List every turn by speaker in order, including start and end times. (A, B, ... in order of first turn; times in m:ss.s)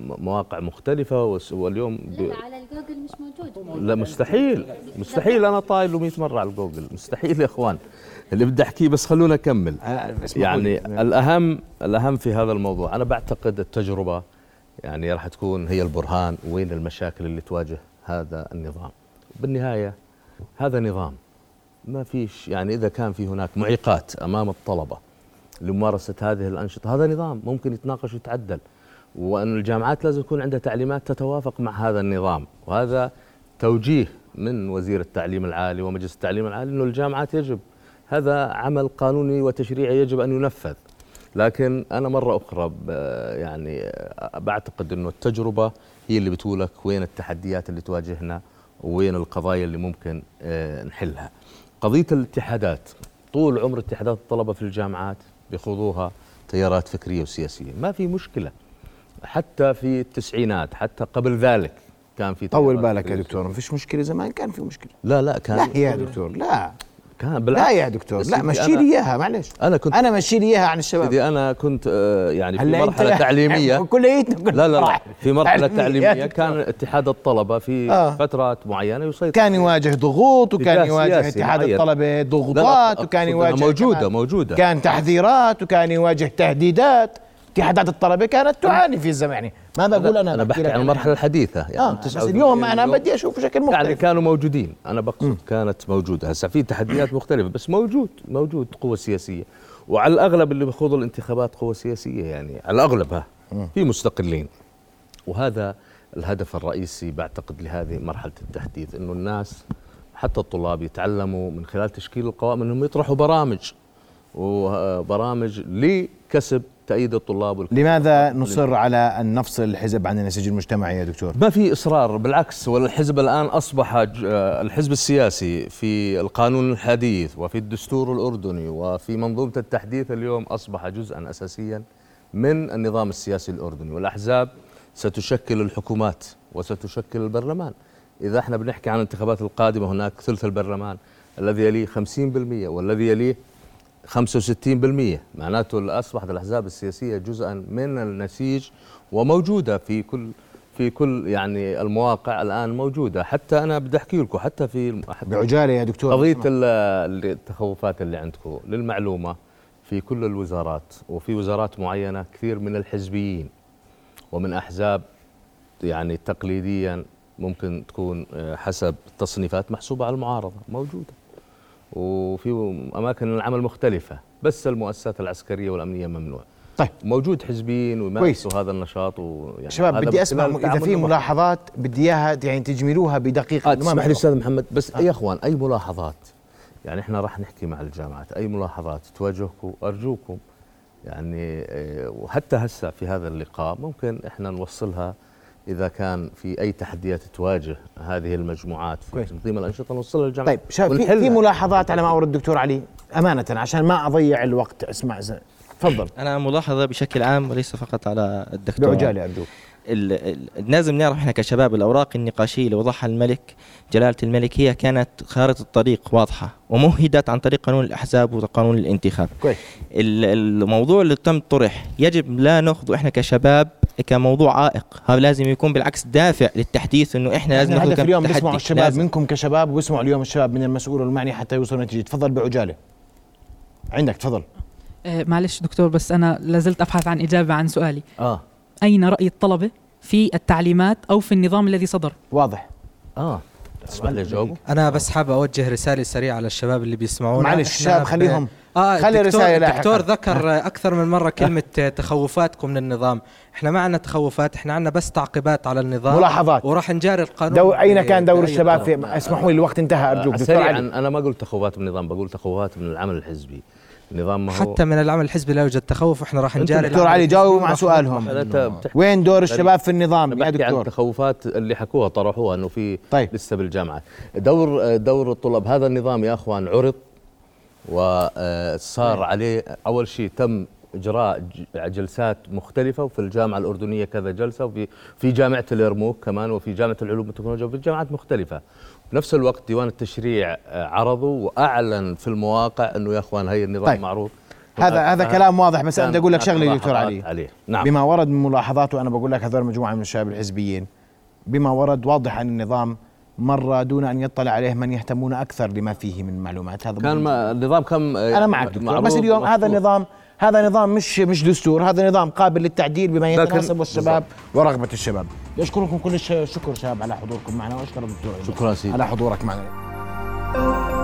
0:00.3-0:02.3 A
0:02.1-0:03.8 B
0:03.8-0:07.8 A
0:04.9-0:05.4 B
0:08.4-0:09.7 A
0:09.8-0:11.0 C
0:10.4-0:14.1 A
0:14.9-0:18.9 A
0:19.4-0:19.9 A
0:20.6-0:21.1 A
0:21.9-0:24.9 A
0:25.7-0:28.6 A
0:29.2-0:33.0 A
0:33.6-0:37.6 A
0:38.1-0:40.7 A
0:41.4-0:43.7 A
0:44.4-0:48.4 A
0:48.9-0:51.3 A
0:51.8-0:52.8 A
0:53.3-0:58.5 A
0:59.3-1:03.4 A
1:02.5-1:05.0 C
1:05.1-1:06.1 A
1:05.5-1:06.8 C
1:07.2-1:07.6 A
1:07.5-1:11.2 C
1:08.2-1:08.7 A
1:11.1-1:11.8 A
1:12.6-1:16.6 C
1:12.6-1:13.6 A
1:14.6-1:17.7 A
1:17.9-1:18.2 C
1:18.2-1:19.7 A
1:19.3-1:31.1 C
1:20.7-1:21.6 A
1:22.6-1:24.4 A
1:30.0-1:33.0 A
1:31.8-1:34.0 C
1:33.8-1:43.2 A
1:43.8-1:44.4 A
1:45.3-1:45.7 A
1:46.2-1:49.5 A
1:50.2-1:53.6 A
1:54.4-1:58.6 A
1:57.7-2:01.4 C
2:01.4-2:04.1 A
2:04.6-2:11.8 A
2:12.4-2:14.4 A
2:15.0-2:17.7 A
2:18.3-2:20.9 A
2:21.4-2:23.3 A
2:24.1-2:28.6 A
2:29.2-2:30.2 A
2:30.8-2:35.2 A
2:35.3-2:36.5 C
2:36.2-2:39.3 A
2:39.9-2:43.5 A
2:44.3-2:45.0 A
2:45.9-2:51.1 A
2:52.0-2:56.4 A
2:57.1-3:01.2 A
2:59.7-3:04.2 C
3:03.7-3:06.1 A
3:06.9-3:10.3 A
3:11.1-3:11.4 A
3:12.3-3:15.1 A
3:15.7-3:21.4 A
3:20.4-3:26.1 C
3:26.2-3:29.1 D
3:28.8-3:29.5 C
3:29.9-3:39.3 D
3:39.9-3:49.0 D
3:47.5-3:52.8 C
3:53.9-3:54.4 C
3:55.1-3:58.0 E
3:58.8-4:02.2 E
4:02.3-4:02.7 C
4:03.9-4:04.5 C
4:03.9-4:04.6 A
4:04.6-4:18.9 F
4:07.3-4:10.4 C
4:16.1-4:16.6 C
4:17.5-4:20.8 C
4:18.4-4:19.5 A
4:20.2-4:23.5 A
4:24.5-4:27.5 F
4:26.8-4:30.9 C
4:26.9-4:28.9 A
4:30.4-4:32.8 A
4:33.4-4:36.9 A
4:38.9-4:40.5 A
4:41.8-4:48.6 A
4:49.1-4:54.3 A
4:54.8-4:57.2 C
4:54.8-4:55.4 A
4:56.0-4:57.8 A
4:57.8-5:00.9 C
5:01.5-5:07.5 C
5:07.0-5:09.8 A
5:08.3-5:19.7 C
5:13.4-5:14.2 A
5:18.5-5:18.9 A